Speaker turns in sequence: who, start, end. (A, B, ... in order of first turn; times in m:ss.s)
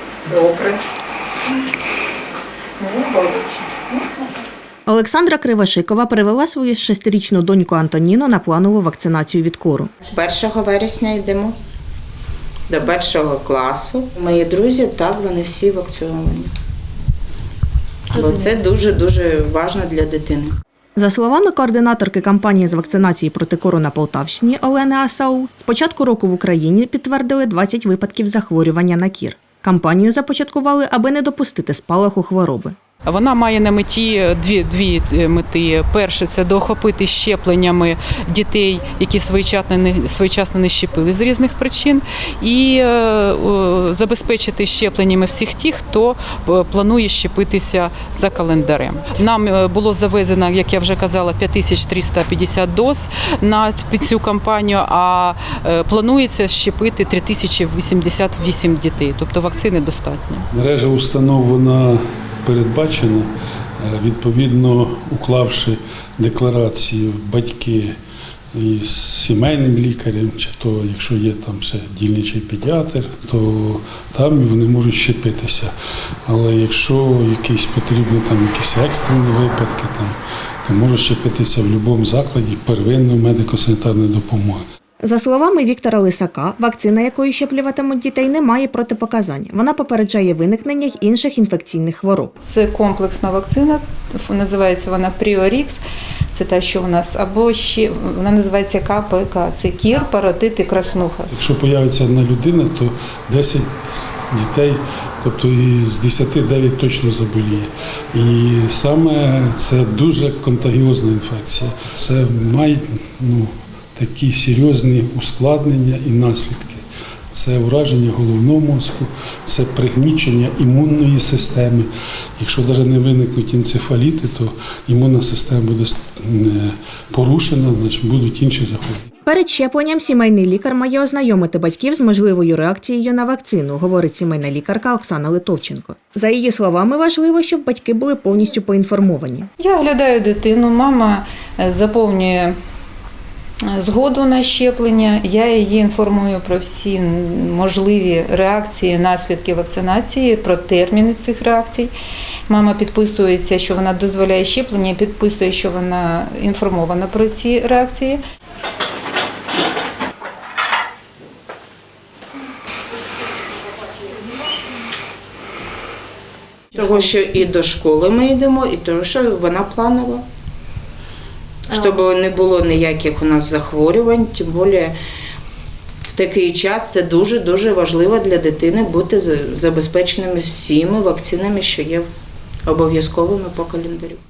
0:00.3-0:00.8 A
0:02.8-0:04.0 A
0:04.9-0:09.9 B
0:10.0-0:11.6 C
0:12.7-0:16.5 C
0:18.1-0:20.5 C
0:21.0-0:32.8 B
0:33.1-1:00.5 D
1:00.5-1:03.3 E
1:03.8-1:07.9 E
1:08.6-1:15.7 E
1:16.3-1:24.6 E
1:25.0-1:32.3 B
1:32.4-1:35.8 A
1:36.3-1:41.4 A
1:41.4-2:09.1 E
2:09.3-2:19.5 B
2:19.6-2:22.6 A
2:23.7-2:31.9 A
2:32.5-2:38.2 A
2:46.7-2:50.2 C
2:51.7-2:55.0 C
2:56.0-3:02.1 C
3:02.7-3:04.2 C